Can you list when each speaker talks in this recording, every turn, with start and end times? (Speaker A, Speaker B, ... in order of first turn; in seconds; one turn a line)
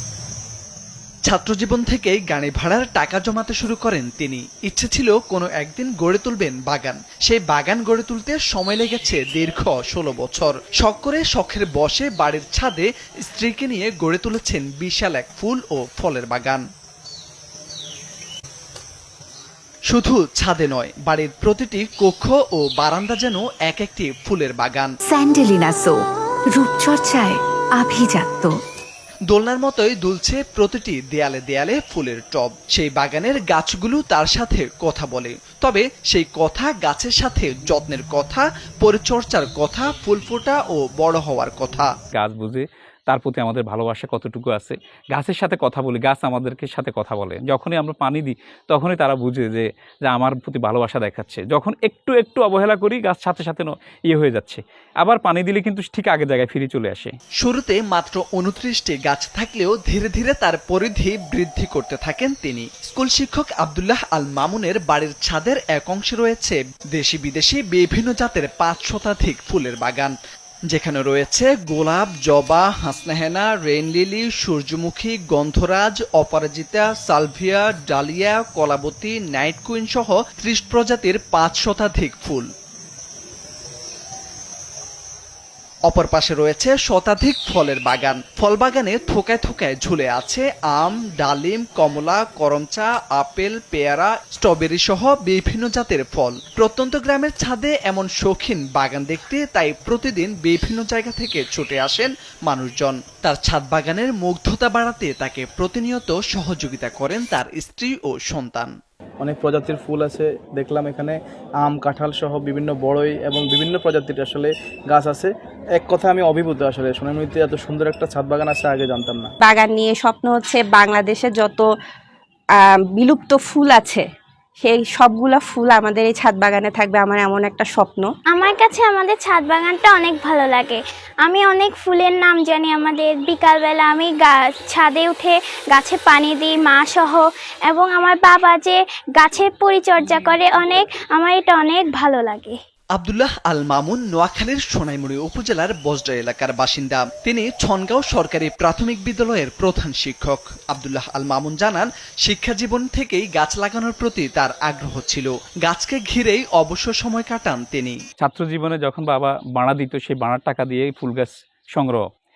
Speaker A: 1.3-16.6
Speaker A: 19.9-24.9
Speaker B: 25.0-28.6
Speaker A: 29.3-41.9
Speaker C: 42.1-57.1
Speaker A: 57.4-70.1
Speaker A: 70.7-82.5
Speaker A: 85.9-108.7
Speaker D: 109.2-119.3
Speaker E: 119.4-121.7
Speaker E: 122.6-124.0
Speaker E: 124.6-128.1
Speaker F: 128.3-142.5
Speaker A: 143.0-158.0
Speaker C: 158.2-162.0